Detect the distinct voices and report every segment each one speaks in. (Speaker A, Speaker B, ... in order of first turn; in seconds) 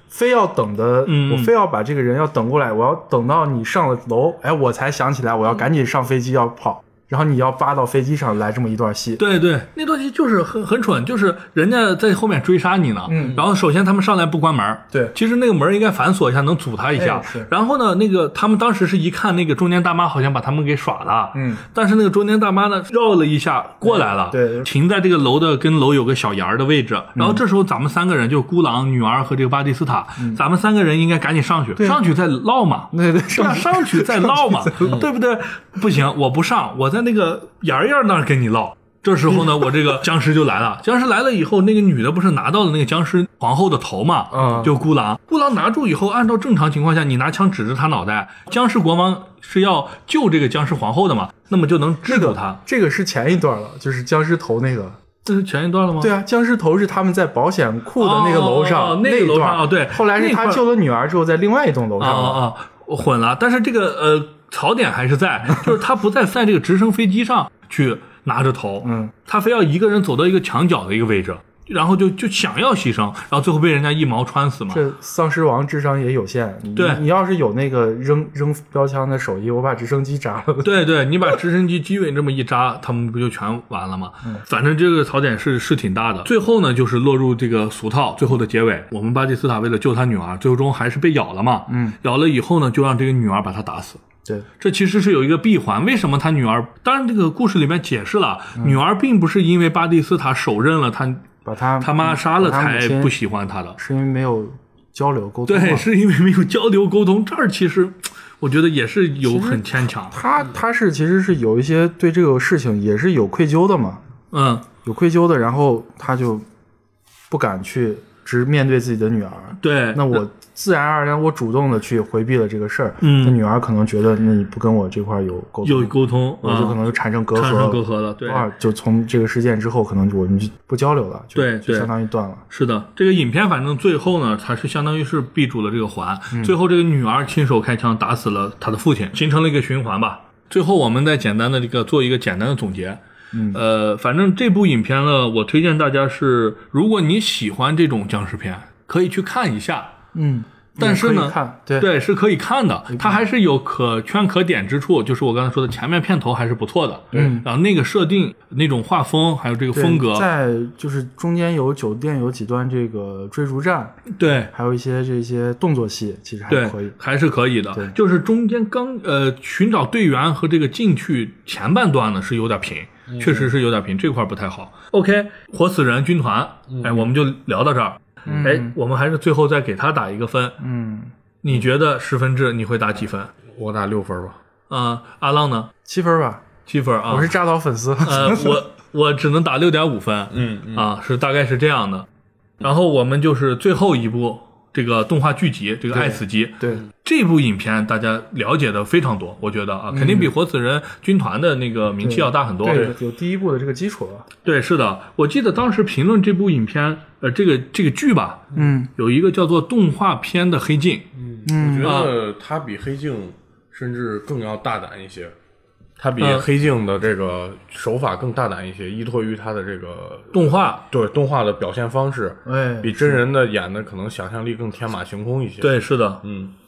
Speaker A: 0.1-9.2, 13.1-13.4, 16.9-17.5, 21.3-21.6, 23.8-24.7, 27.1-27.4, 32.9-35.0, 44.3-44.7, 52.0-55.0, 56.0-62.4, 68.8-69.1, 74.7-80.7, 91.7-92.0, 101.4-103.1, 103.8-105.9, 109.2-114.0, 114.8-116.4, 117.3-132.4, 143.3-143.6, 150.1-151.9, 152.9-153.2, 157.1-157.5, 159.7-166.9, 173.2-173.5, 178.2-178.7, 180.6-181.1, 185.8-186.4, 187.1-188.6, 199.9-200.3, 202.0-204.3, 208.5-208.9, 211.4-212.0, 222.4-223.2
Speaker B: 1.1-1.5, 9.2-52.6, 55.2-56.1, 58.0-60.6, 62.0-74.8, 76.8-77.0, 80.6-94.0, 94.6-101.3, 101.8-103.8, 105.5-110.1, 114.3-114.7, 119.6-120.2, 123.0-123.4, 125.6-126.8, 127.3-128.5, 131.3-131.9, 132.5-143.0, 143.5-149.9, 150.8-160.2, 164.2-164.5, 166.5-180.6, 181.4-183.3, 184.7-185.7, 186.7-187.4, 188.0-192.1, 192.6-202.9, 204.4-211.1, 211.8-212.1, 216.2-216.5, 220.3-220.8, 225.6-226.2
Speaker C: 34.8-35.1, 44.3-44.7, 176.7-177.1, 183.5-184.4, 190.3-190.9, 202.7-202.9, 211.2-215.3, 216.0-226.5